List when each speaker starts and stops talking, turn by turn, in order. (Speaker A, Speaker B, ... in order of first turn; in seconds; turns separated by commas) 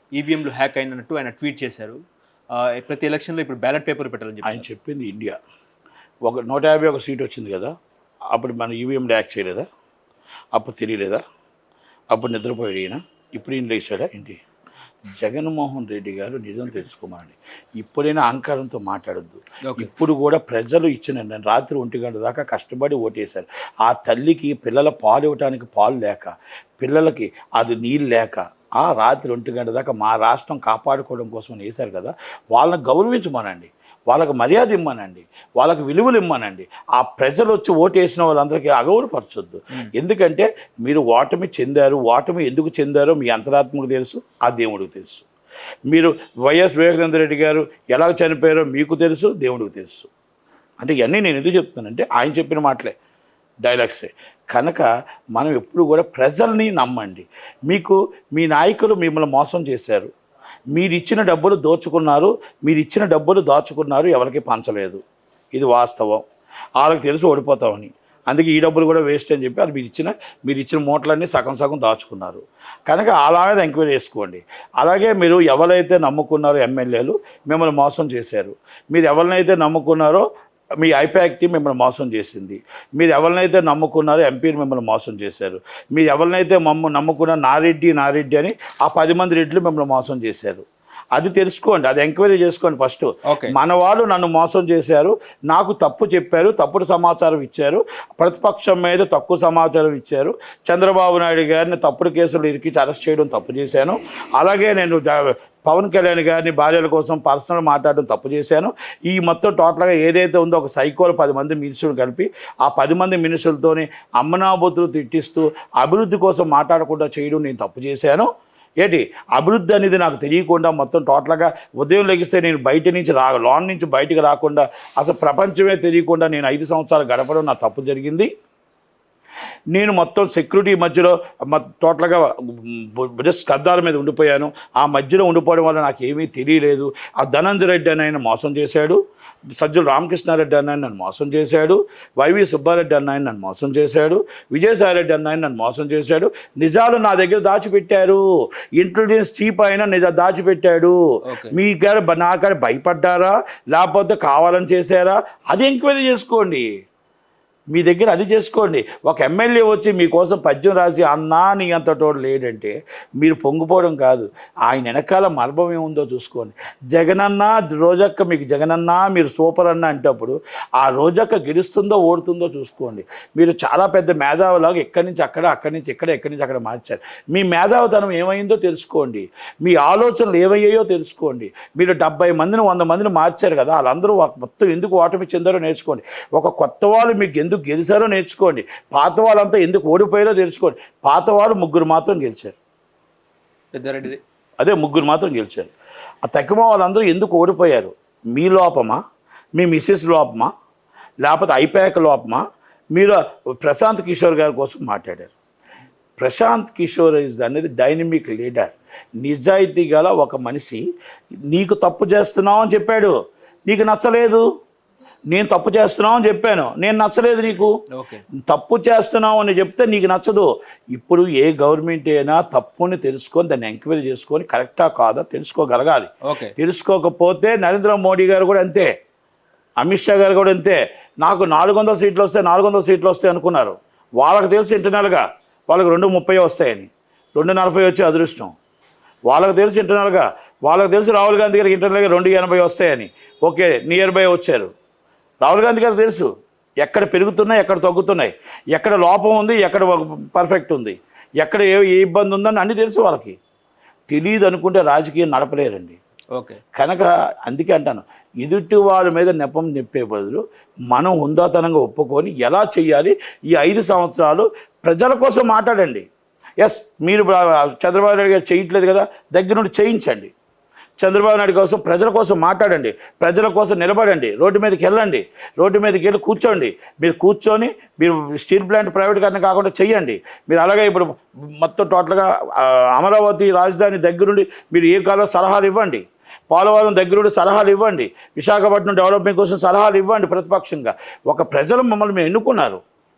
Speaker A: 0.1-2.0, Speaker A: 2.5-4.7, Speaker B: 4.4-5.4, Speaker B: 6.2-7.7, Speaker B: 8.3-9.7, Speaker B: 10.5-11.2, Speaker B: 12.1-14.4, Speaker B: 15.1-45.2, Speaker B: 45.9-50.1, Speaker B: 50.8-52.9, Speaker B: 53.6-60.1, Speaker B: 60.7-65.0, Speaker B: 65.5-66.2, Speaker B: 66.8-80.2, Speaker B: 80.8-90.6, Speaker B: 91.1-118.3, Speaker A: 93.3-93.5, Speaker B: 118.8-128.3, Speaker B: 129.7-139.0, Speaker B: 139.6-156.7, Speaker A: 151.2-151.6, Speaker B: 157.7-192.6, Speaker A: 193.7-194.2, Speaker B: 194.6-195.7, Speaker B: 196.2-199.0, Speaker B: 199.5-200.5, Speaker B: 201.2-205.3, Speaker B: 206.2-210.8, Speaker B: 211.5-213.1, Speaker B: 213.7-214.4, Speaker B: 215.3-217.7, Speaker A: 217.9-218.2, Speaker B: 218.5-228.9, Speaker A: 226.2-226.5, Speaker B: 229.8-238.5, Speaker B: 239.3-244.7, Speaker B: 245.4-246.3, Speaker B: 246.8-253.4, Speaker B: 254.1-256.0, Speaker A: 256.3-256.6, Speaker B: 256.7-266.0, Speaker B: 266.6-270.3, Speaker B: 271.0-292.8